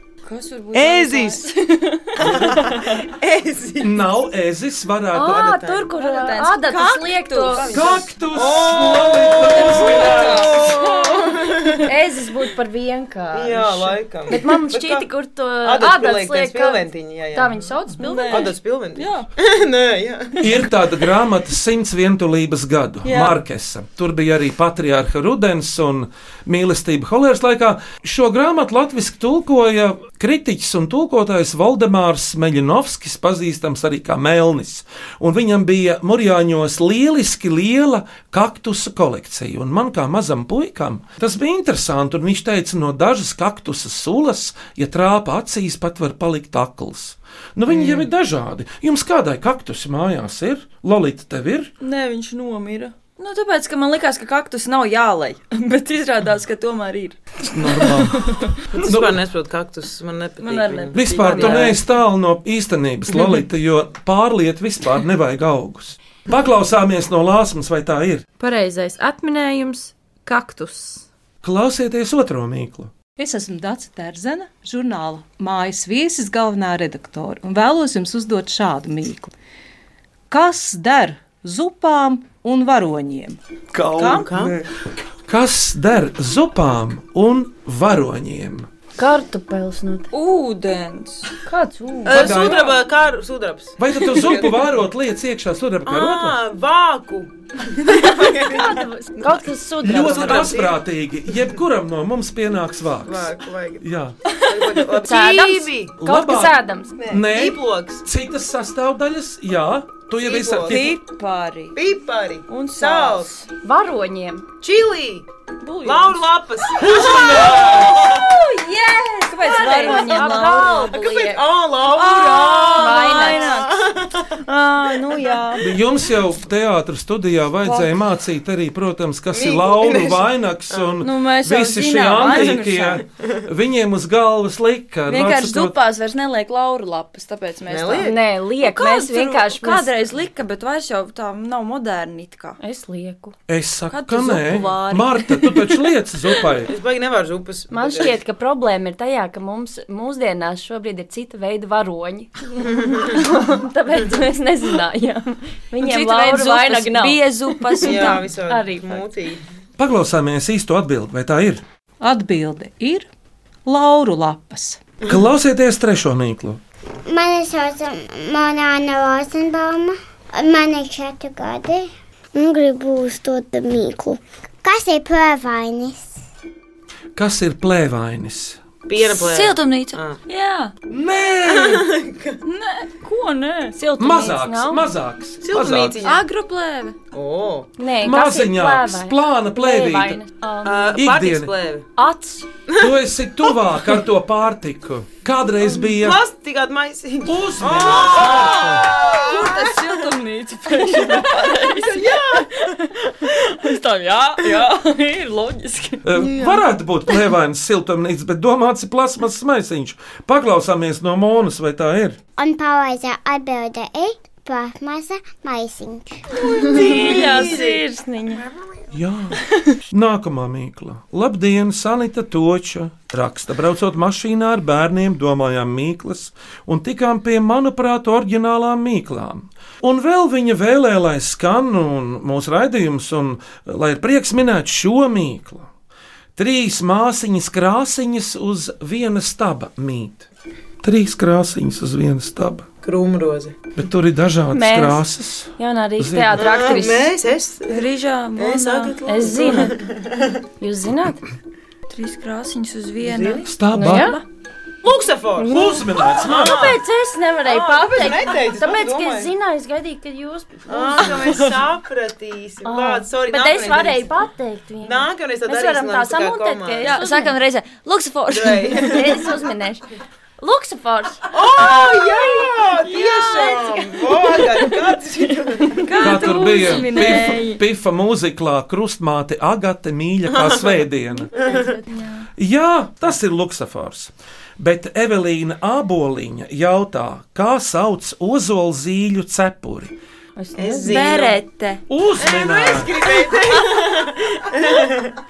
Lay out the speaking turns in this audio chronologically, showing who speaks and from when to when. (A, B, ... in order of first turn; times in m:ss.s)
0:00.2-0:02.8 A
0:00.7-0:01.5 B
0:02.2-0:04.0 B
0:02.2-0:02.5 C
0:03.8-0:05.6 C
0:05.1-0:07.7 D
0:05.2-0:05.9 B
0:06.0-0:07.9 A
0:07.5-0:11.9 B
0:07.7-0:10.6 C
0:09.3-0:11.2 A
0:11.8-0:18.5 D
0:13.3-0:15.1 B
0:15.6-0:17.7 B
0:18.0-0:19.2 A
0:18.3-0:20.6 B
0:20.4-0:51.7 C
0:23.0-0:23.3 A
0:47.7-0:48.0 B
0:51.8-0:58.5 A
0:57.4-0:58.2 C
0:58.7-1:01.8 B
0:58.7-0:59.2 C
1:00.4-1:01.8 A
1:00.9-1:08.2 C
1:08.4-1:11.0 E
1:11.4-1:12.9 C
1:13.2-1:19.3 F
1:20.3-1:23.4 F
1:23.7-1:24.6 C
1:24.0-1:24.6 B
1:24.0-1:24.2 F
1:25.3-1:28.7 C
1:29.0-1:30.1 D
1:30.1-1:31.3 A
1:31.4-1:32.5 D
1:32.0-1:34.7 B
1:32.1-1:32.7 C
1:33.8-1:36.4 C
1:35.8-1:40.8 B
1:38.4-1:40.5 D
1:39.8-1:44.2 C
1:43.0-1:43.8 B
1:44.4-1:46.0 B
1:45.0-1:46.9 D
1:46.0-1:46.6 C
1:47.0-1:48.0 B
1:47.1-1:51.0 C
1:50.2-1:50.9 B
1:50.6-1:51.8 A
1:51.7-1:53.3 B
1:52.5-1:53.4 A
1:53.6-1:54.4 D
1:54.6-1:55.2 B
1:55.6-1:56.2 A
1:55.8-1:58.3 B
1:56.7-1:58.0 C
1:57.0-2:00.9 A
1:59.4-2:01.4 D
1:59.8-2:04.4 B
2:01.9-2:03.8 A
2:02.8-2:03.5 D
2:04.4-2:05.7 A
2:05.6-2:15.8 C
2:07.6-2:07.9 A
2:09.3-2:11.0 B
2:11.0-2:13.0 A
2:15.1-2:22.6 A
2:17.7-2:18.2 B
2:18.0-2:19.9 D
2:22.6-2:23.3 D
2:23.5-2:26.7 C
2:23.9-2:25.7 A
2:26.6-2:28.2 B
2:27.7-2:39.0 D
2:35.8-2:38.3 A
2:37.8-2:39.4 B
2:39.8-2:41.6 C
2:42.0-2:43.1 F
2:43.6-2:44.8 F
2:45.1-2:46.6 C
2:47.0-2:56.1 G
2:57.2-2:58.6 C
2:58.9-3:00.2 B
2:59.0-3:00.7 A
3:00.9-3:01.9 C
3:01.5-3:02.4 B
3:02.4-3:04.2 A
3:03.8-3:04.8 D
3:04.0-3:06.0 C
3:05.4-3:06.2 B
3:06.0-3:07.0 A
3:07.1-3:07.7 B
3:07.8-3:11.0 D
3:08.0-3:10.2 C
3:10.6-3:11.9 B
3:10.9-3:11.5 C
3:12.0-3:12.5 D
3:12.7-3:12.9 B
3:12.8-3:16.2 C
3:15.8-3:20.0 B
3:17.2-3:18.9 C
3:17.9-3:26.6 A
3:20.8-3:22.7 B
3:26.0-3:32.2 C
3:32.4-3:36.2 G
3:36.4-3:37.8 B
3:36.6-3:38.4 D
3:36.7-3:37.8 A
3:38.3-3:38.8 B
3:38.9-3:55.7 C
3:56.4-4:00.3 C
4:00.8-4:02.7 C
4:02.8-4:03.6 B
4:03.8-4:06.6 C
4:04.5-4:05.0 D
4:05.6-4:07.1 D
4:06.4-4:07.8 B
4:07.7-4:09.6 A
4:08.4-4:10.4 B
4:09.1-4:09.8 D
4:10.6-4:11.2 D
4:11.9-4:14.2 A
4:13.0-4:13.5 B
4:13.4-4:14.2 C
4:13.7-4:14.2 D
4:14.8-4:16.8 B
4:15.4-4:21.4 D
4:15.5-4:16.8 C
4:17.4-4:19.3 B
4:20.7-4:24.1 B
4:22.6-4:27.4 D
4:24.8-4:27.0 B
4:26.8-4:29.1 A
4:28.3-4:29.3 B
4:28.8-4:29.8 D
4:30.4-4:32.2 D
4:31.3-4:36.2 B
4:32.9-4:33.8 A
4:35.7-4:37.6 A
4:36.0-4:41.3 C
4:41.4-4:41.6 B
4:41.4-4:42.2 A
4:42.4-4:49.9 C
4:50.4-4:51.1 D
4:50.6-4:51.4 B
4:50.9-4:51.8 A
4:51.9-4:52.9 C
4:52.2-4:55.2 B